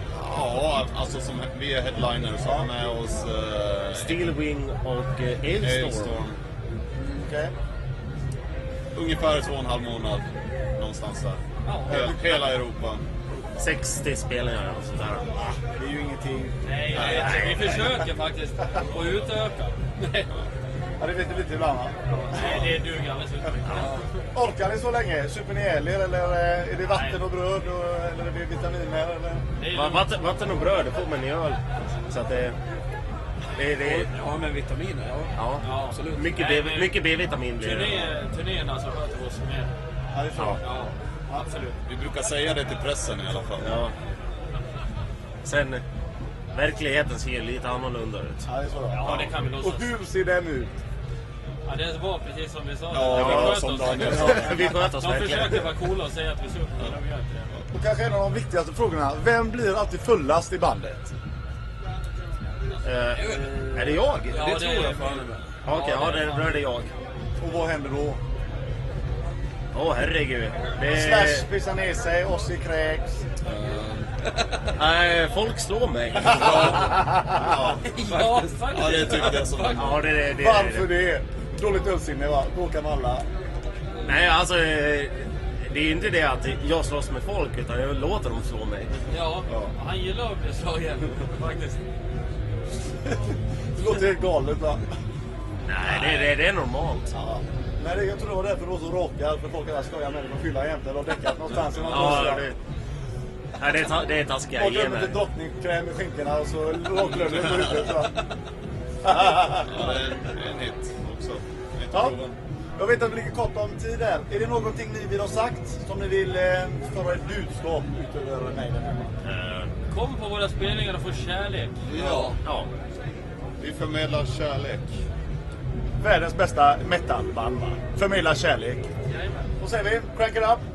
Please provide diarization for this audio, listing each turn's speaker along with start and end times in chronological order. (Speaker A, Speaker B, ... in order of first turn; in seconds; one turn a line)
Speaker A: 0.1-4.2
Speaker B: 3.9-6.2
Speaker A: 5.6-6.4
Speaker C: 7.0-7.5
Speaker A: 8.9-13.0
Speaker D: 11.7-12.1
Speaker C: 11.9-12.3
Speaker B: 13.6-15.3
Speaker C: 15.7-17.9
Speaker D: 16.6-20.3
Speaker A: 16.9-17.9
Speaker C: 21.0-22.7
Speaker D: 22.1-24.1
Speaker A: 22.4-22.6
Speaker C: 24.3-29.4
Speaker D: 26.9-27.2
Speaker D: 29.6-30.1
Speaker B: 29.7-32.6
Speaker B: 33.6-34.1
Speaker E: 33.8-36.2
Speaker B: 35.4-38.2
Speaker D: 35.6-37.0
Speaker D: 37.6-39.7
Speaker C: 40.1-41.5
Speaker D: 40.6-41.8
Speaker A: 41.9-43.8
Speaker B: 43.6-43.9
Speaker B: 45.4-45.8
Speaker B: 46.5-48.5
Speaker C: 48.5-50.7
Speaker D: 48.9-49.9
Speaker D: 51.7-57.5
Speaker A: 52.9-54.5
Speaker B: 53.1-55.7
Speaker C: 57.7-61.1
Speaker B: 62.8-64.5
Speaker D: 64.3-66.5
Speaker E: 64.3-65.4
Speaker B: 65.7-66.9
Speaker C: 67.4-68.2
Speaker B: 69.7-71.5
Speaker C: 70.9-73.3
Speaker A: 73.4-74.1
Speaker B: 74.8-77.0
Speaker A: 76.3-77.8
Speaker C: 76.9-77.6
Speaker D: 77.9-80.0
Speaker A: 78.7-80.0
Speaker B: 79.8-80.9
Speaker C: 80.4-83.2
Speaker B: 84.0-89.0
Speaker D: 89.1-91.8
Speaker C: 93.1-94.9
Speaker B: 95.7-97.1
Speaker C: 97.1-102.5
Speaker A: 101.8-102.3
Speaker B: 101.9-102.6
Speaker B: 103.6-105.2
Speaker C: 104.5-108.2
Speaker A: 107.2-107.6
Speaker C: 109.0-109.9
Speaker A: 109.7-112.4
Speaker C: 111.9-112.2
Speaker C: 112.8-119.2
Speaker B: 119.2-119.7
Speaker D: 119.9-122.4
Speaker A: 121.9-122.4
Speaker B: 122.4-122.7
Speaker A: 123.6-125.0
Speaker C: 126.0-128.9
Speaker D: 129.1-129.5
Speaker C: 129.6-130.6